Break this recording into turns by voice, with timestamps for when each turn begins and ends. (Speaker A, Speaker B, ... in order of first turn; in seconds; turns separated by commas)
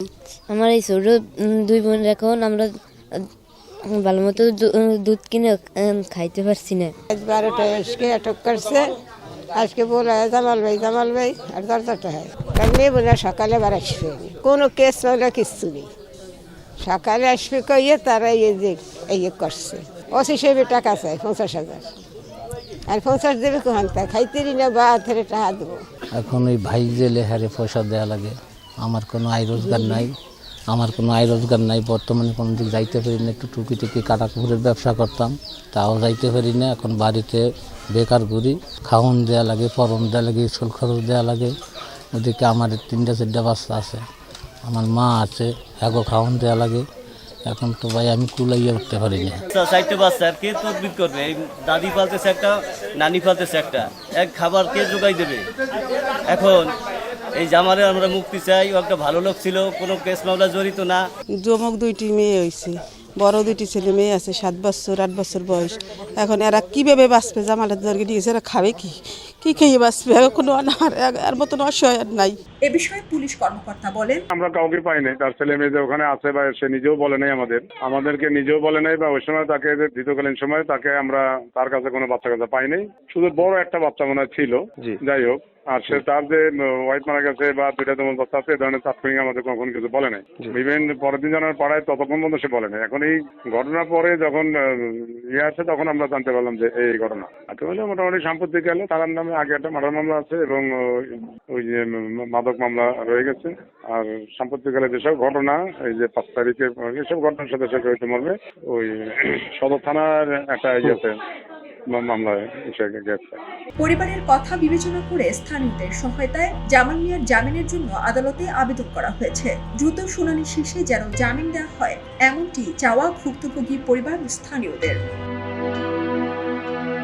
Speaker A: 0.5-3.2, Speaker A: 3.9-6.9, Speaker B: 7.1-8.8, Speaker B: 9.5-15.9, Speaker B: 16.8-21.9, Speaker B: 22.9-25.8, Speaker C: 26.1-30.1, Speaker C: 30.7-41.5, Speaker C: 42.1-44.0, Speaker C: 44.6-46.9, Speaker C: 47.5-49.4, Speaker D: 49.5-55.5, Speaker D: 56.3-56.7, Speaker D: 57.3-61.0, Speaker E: 61.4-72.4, Speaker F: 72.7-74.2, Speaker G: 74.3-111.1, Speaker G: 112.0-113.4, Speaker F: 113.8-125.0